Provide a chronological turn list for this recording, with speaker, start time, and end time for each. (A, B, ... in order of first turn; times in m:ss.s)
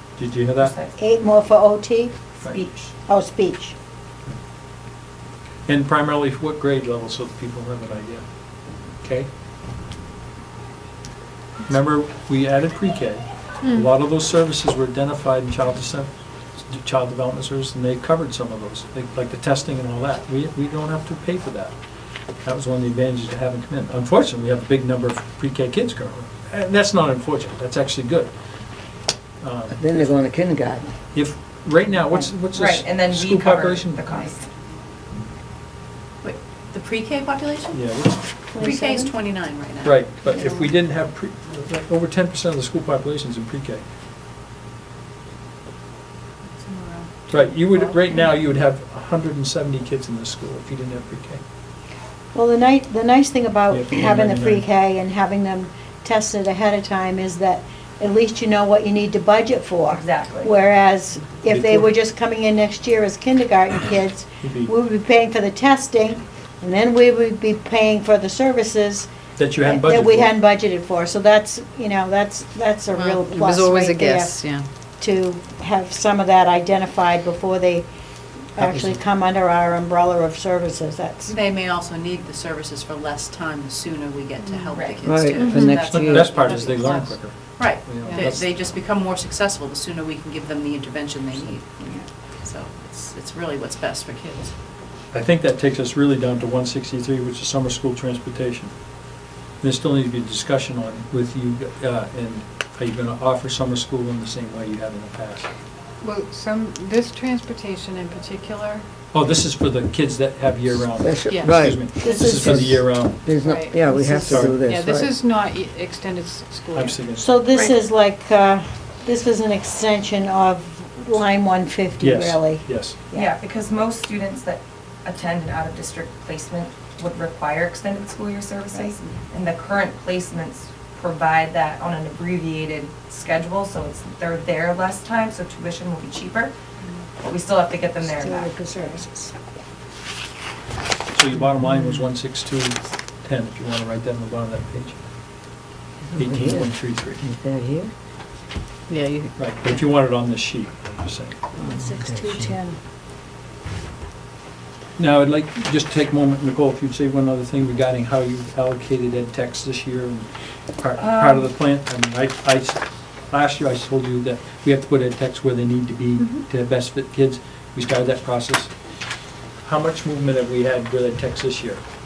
0:00.2-0:00.8 A
0:00.6-0:01.0 B
0:01.0-0:02.2 C
0:02.4-0:03.0 B
0:03.1-0:03.8 C
0:05.7-0:08.2 A
0:09.0-0:09.3 A
0:11.6-0:21.8 A
0:22.4-0:28.3 A
0:29.4-0:30.1 A
0:29.7-0:30.9 D
0:31.1-0:34.3 A
0:32.5-0:34.5 B
0:36.2-0:37.8 E
0:37.7-0:38.4 A
0:38.4-0:39.1 C
0:38.6-0:40.7 E
0:39.8-0:43.8 A
0:46.6-0:47.2 E
0:47.3-0:51.4 A
0:52.3-1:14.4 C
0:53.7-0:54.7 A
0:59.9-1:00.5 B
1:01.4-1:02.0 A
1:04.4-1:04.7 A
1:09.4-1:10.4 A
1:13.0-1:14.7 F
1:15.0-1:17.9 C
1:18.6-1:21.4 C
1:18.6-1:19.0 D
1:21.2-1:34.6 E
1:24.4-1:24.7 G
1:24.7-1:25.0 B
1:25.0-1:26.5 D
1:25.4-1:27.2 G
1:25.7-1:28.5 A
1:28.0-1:28.4 G
1:35.1-1:38.7 A
1:39.6-1:45.5 A
1:46.0-1:48.9 G
1:49.1-1:53.4 A
1:51.0-1:55.2 D
1:51.2-1:52.1 G
1:52.0-1:52.8 C
1:53.4-1:53.8 G
1:53.8-1:54.5 C
1:54.2-1:54.6 A
1:54.6-1:57.0 G
1:56.8-1:57.3 A
1:57.1-2:03.3 C
2:02.0-2:03.0 A
2:03.1-2:16.5 B
2:17.2-2:18.5 B
2:18.0-2:19.3 C
2:21.1-2:25.0 A
2:26.1-2:27.9 D
2:26.2-2:27.2 A
2:28.9-2:29.4 F
2:29.3-2:31.5 A
2:31.6-2:32.6 D
2:31.7-2:32.8 C
2:35.0-2:48.7 A
2:41.0-2:41.5 B
2:49.6-2:51.8 A